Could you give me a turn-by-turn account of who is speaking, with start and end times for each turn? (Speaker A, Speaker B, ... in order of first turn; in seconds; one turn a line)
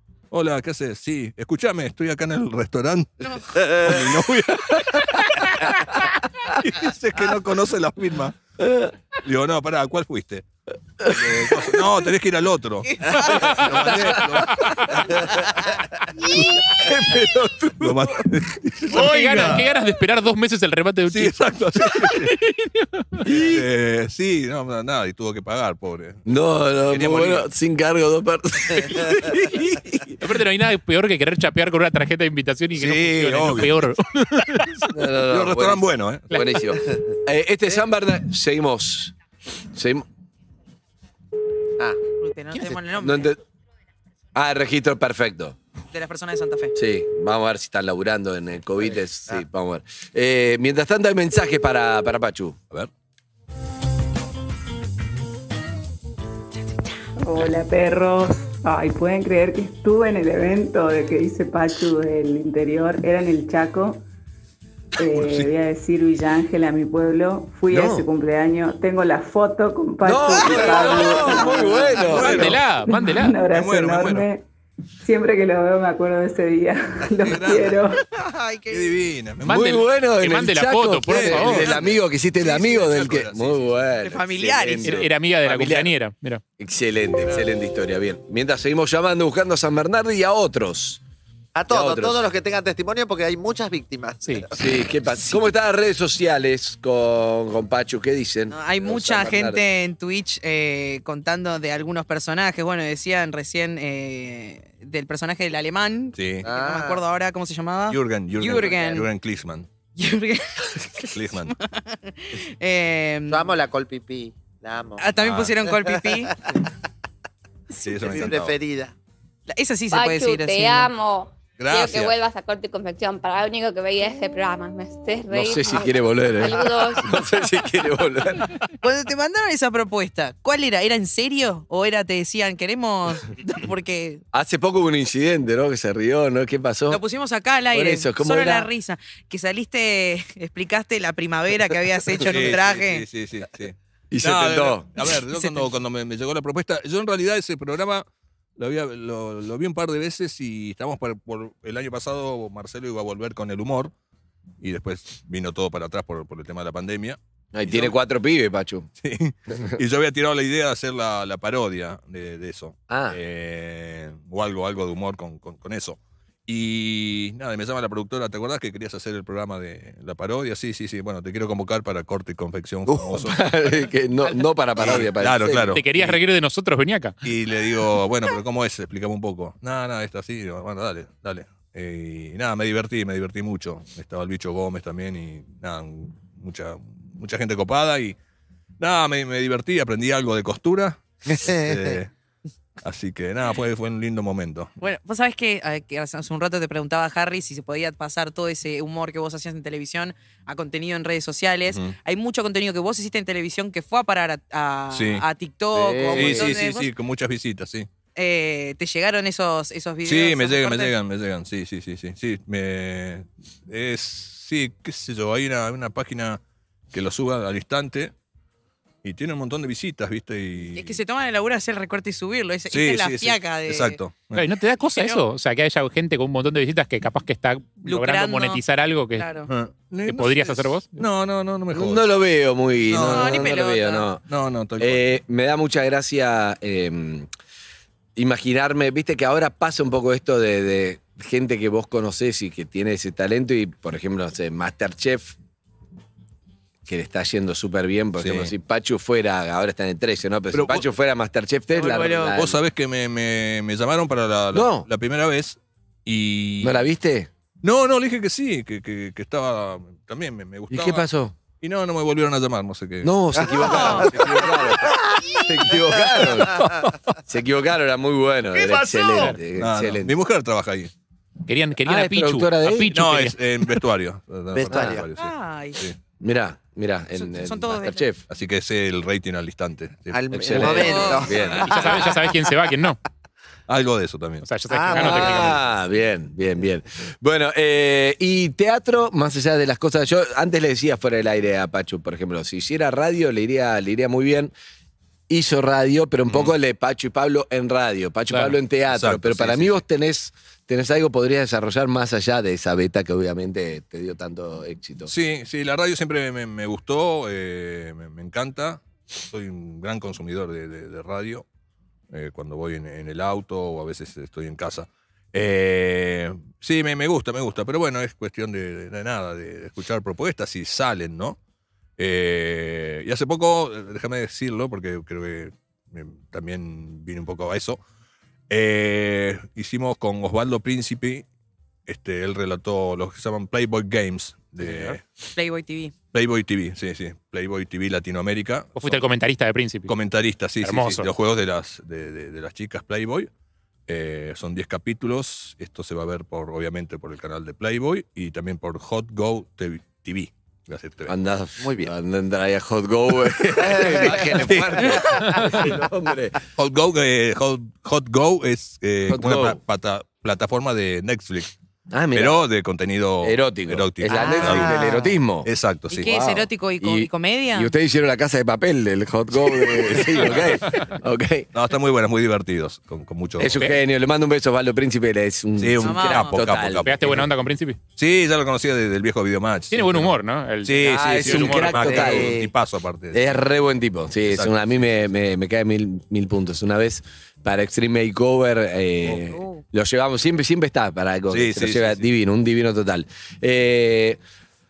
Speaker A: 0.3-5.8
Speaker A: 6.5-8.4
Speaker B: 8.6-8.9
Speaker A: 9.2-10.4
Speaker B: 11.0-11.7
Speaker A: 11.0-15.3
Speaker C: 12.8-13.7
Speaker B: 13.7-14.5
Speaker B: 16.7-18.2
Speaker A: 17.8-19.7
Speaker D: 18.9-21.3
Speaker A: 21.1-22.3
Speaker D: 21.9-23.3
Speaker B: 23.2-23.6
Speaker A: 23.2-26.2
Speaker B: 26.2-30.2
Speaker A: 26.9-27.5
Speaker D: 30.2-34.9
Speaker A: 32.7-33.8
Speaker B: 34.9-39.1
Speaker A: 35.3-36.2
Speaker D: 36.3-36.6
Speaker B: 39.7-40.0
Speaker C: 42.2-43.4
Speaker B: 42.9-43.4
Speaker B: 44.3-45.6
Speaker C: 45.9-46.7
Speaker B: 46.7-52.6
Speaker E: 57.2-64.0
Speaker E: 65.0-74.5
Speaker A: 65.1-65.5
Speaker B: 67.7-68.0
Speaker B: 70.0-72.6
Speaker C: 70.5-72.0
Speaker A: 72.0-72.6
Speaker D: 72.2-73.4
Speaker A: 73.5-74.3
Speaker E: 75.0-78.0
Speaker A: 77.2-77.8
Speaker C: 78.1-78.9
Speaker A: 78.7-79.7
Speaker D: 79.4-81.7
Speaker B: 79.5-86.0
Speaker A: 81.0-83.8
Speaker C: 84.0-85.1
Speaker D: 84.8-86.4
Speaker B: 86.6-91.0
Speaker F: 91.5-94.5
Speaker B: 91.7-92.2
Speaker B: 94.5-99.6
Speaker C: 98.5-109.1
Speaker A: 106.1-106.5
Speaker F: 106.4-107.0
Speaker A: 107.9-109.7
Speaker C: 110.0-113.5
Speaker A: 111.1-111.5
Speaker F: 113.3-115.0
Speaker C: 115.0-116.3
Speaker A: 115.2-115.6
Speaker F: 115.7-116.7
Speaker A: 117.8-118.6
Speaker F: 118.0-118.9
Speaker C: 119.5-120.9
Speaker G: 119.9-127.0
Speaker A: 121.6-122.1
Speaker B: 125.3-128.5
Speaker C: 128.8-134.2
Speaker B: 134.3-137.0
Speaker C: 136.9-143.0
Speaker B: 137.7-138.7
Speaker A: 142.2-148.0
Speaker B: 144.1-145.1
Speaker A: 148.6-153.9
Speaker A: 154.6-157.9
Speaker B: 157.5-158.9
Speaker A: 159.0-173.4
Speaker B: 159.5-159.8
Speaker B: 162.9-163.2
Speaker B: 173.1-175.8
Speaker A: 174.8-176.2
Speaker D: 175.7-177.1
Speaker A: 177.2-188.2
Speaker A: 188.8-192.1
Speaker F: 191.3-191.9
Speaker A: 192.8-194.7
Speaker C: 194.8-206.9
Speaker A: 201.7-201.9
Speaker A: 204.9-205.2
Speaker F: 205.8-206.5
Speaker A: 206.0-207.9
Speaker C: 208.1-210.9
Speaker A: 210.0-216.4
Speaker A: 216.9-218.1
Speaker A: 219.0-221.0
Speaker C: 220.7-224.0
Speaker A: 222.7-224.5
Speaker D: 224.3-229.3
Speaker C: 224.9-225.2
Speaker C: 227.8-228.6
Speaker C: 229.1-229.5
Speaker A: 229.5-232.1
Speaker D: 230.0-231.0
Speaker B: 231.7-234.2
Speaker A: 232.9-233.4
Speaker C: 232.9-234.1
Speaker A: 234.3-235.0
Speaker B: 234.8-237.3
Speaker B: 238.2-245.4
Speaker B: 246.8-252.6
Speaker A: 248.2-248.5
Speaker A: 250.5-250.8
Speaker C: 251.7-252.3
Speaker A: 252.2-256.8
Speaker B: 254.5-254.9
Speaker B: 256.6-257.3
Speaker A: 257.6-261.0
Speaker B: 260.7-261.4
Speaker A: 261.6-263.1
Speaker B: 263.0-266.7
Speaker F: 263.4-266.9
Speaker C: 263.6-264.1
Speaker A: 264.0-264.6
Speaker B: 267.2-270.1
Speaker D: 269.1-269.4
Speaker A: 269.6-270.9
Speaker D: 271.5-273.4
Speaker B: 271.8-272.9
Speaker A: 272.9-276.0
Speaker F: 274.5-275.0
Speaker C: 275.1-275.8
Speaker B: 276.2-278.2
Speaker C: 277.1-278.1
Speaker A: 278.3-280.9
Speaker F: 280.1-282.5
Speaker B: 280.3-281.8
Speaker C: 280.6-281.4
Speaker D: 281.6-283.0
Speaker A: 283.7-284.5
Speaker D: 284.4-285.6
Speaker F: 284.7-285.5
Speaker B: 284.9-294.5
Speaker B: 295.3-305.1
Speaker A: 298.9-299.8
Speaker A: 305.1-311.4
Speaker A: 312.1-321.4
Speaker A: 322.0-327.8
Speaker A: 328.5-331.2
Speaker A: 331.9-335.0
Speaker D: 334.6-335.0
Speaker C: 335.3-335.9
Speaker A: 336.1-339.0
Speaker D: 338.8-339.9
Speaker A: 339.9-343.3
Speaker D: 340.6-341.1
Speaker A: 343.9-351.1
Speaker B: 351.1-356.4
Speaker F: 351.6-351.9
Speaker F: 353.6-355.7
Speaker A: 353.8-355.0
Speaker A: 356.6-361.5
Speaker B: 359.1-359.6
Speaker B: 361.9-362.4
Speaker A: 362.1-364.8
Speaker B: 363.2-371.5
Speaker F: 364.1-365.1
Speaker A: 365.4-366.1
Speaker C: 365.9-367.7
Speaker A: 369.9-370.5
Speaker A: 371.5-373.5
Speaker B: 373.4-377.1
Speaker D: 373.5-373.8
Speaker A: 375.6-377.3
Speaker C: 375.8-376.3
Speaker D: 376.8-377.8
Speaker A: 377.9-383.4
Speaker D: 379.7-382.1
Speaker B: 380.9-382.5
Speaker F: 381.7-382.5
Speaker B: 383.1-394.2
Speaker A: 384.3-384.7
Speaker C: 389.3-389.6
Speaker A: 391.3-392.1